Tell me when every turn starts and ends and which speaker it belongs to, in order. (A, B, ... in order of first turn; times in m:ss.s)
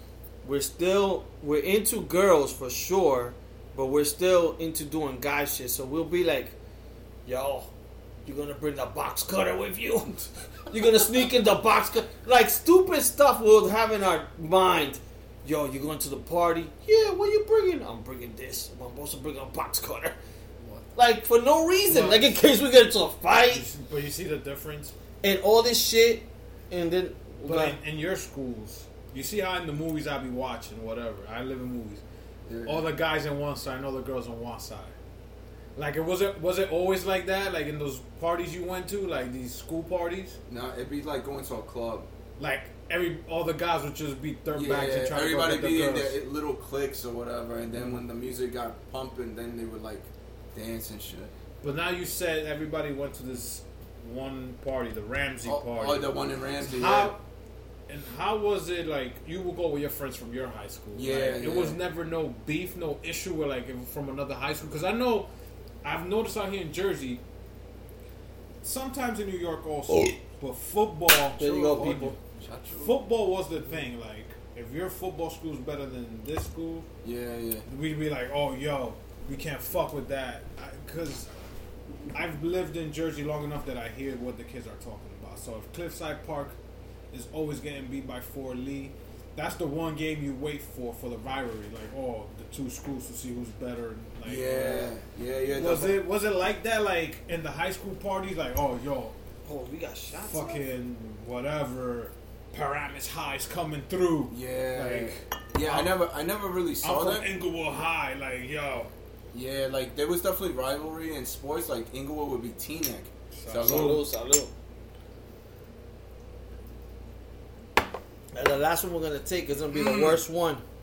0:00.4-0:06.6 A
0:07.3-0:07.7 A
0:08.2-0:20.2 A
0:21.0-0:23.6 A
0:21.9-0:22.4 B
0:23.5-0:25.0 B
0:25.2-0:27.8 A
0:27.4-0:32.0 B
0:32.5-0:32.9 C
0:32.6-0:35.0 B
0:35.8-0:40.4 B
0:40.5-0:42.1 C
0:42.4-0:46.2 B
0:44.6-0:51.3 C
0:51.6-0:57.2 B
0:55.4-0:57.2 C
0:57.9-1:05.3 B
1:01.0-1:01.8 C
1:05.8-1:07.2 B
1:08.6-1:12.2 B
1:11.4-1:12.2 A
1:12.4-1:13.0 C
1:12.8-1:16.9 B
1:17.0-1:17.7 C
1:17.7-1:21.3 B
1:22.1-1:26.6 B
1:27.1-1:34.9 B
1:34.2-1:36.0 C
1:35.5-1:39.2 B
1:39.5-1:40.6 A
1:40.2-1:46.0 B
1:44.3-1:47.3 C
1:46.8-1:48.9 B
1:49.3-1:54.0 C
1:53.4-1:54.0 B
1:53.6-1:54.5 A
1:58.3-2:00.6 A
1:59.7-2:00.2 C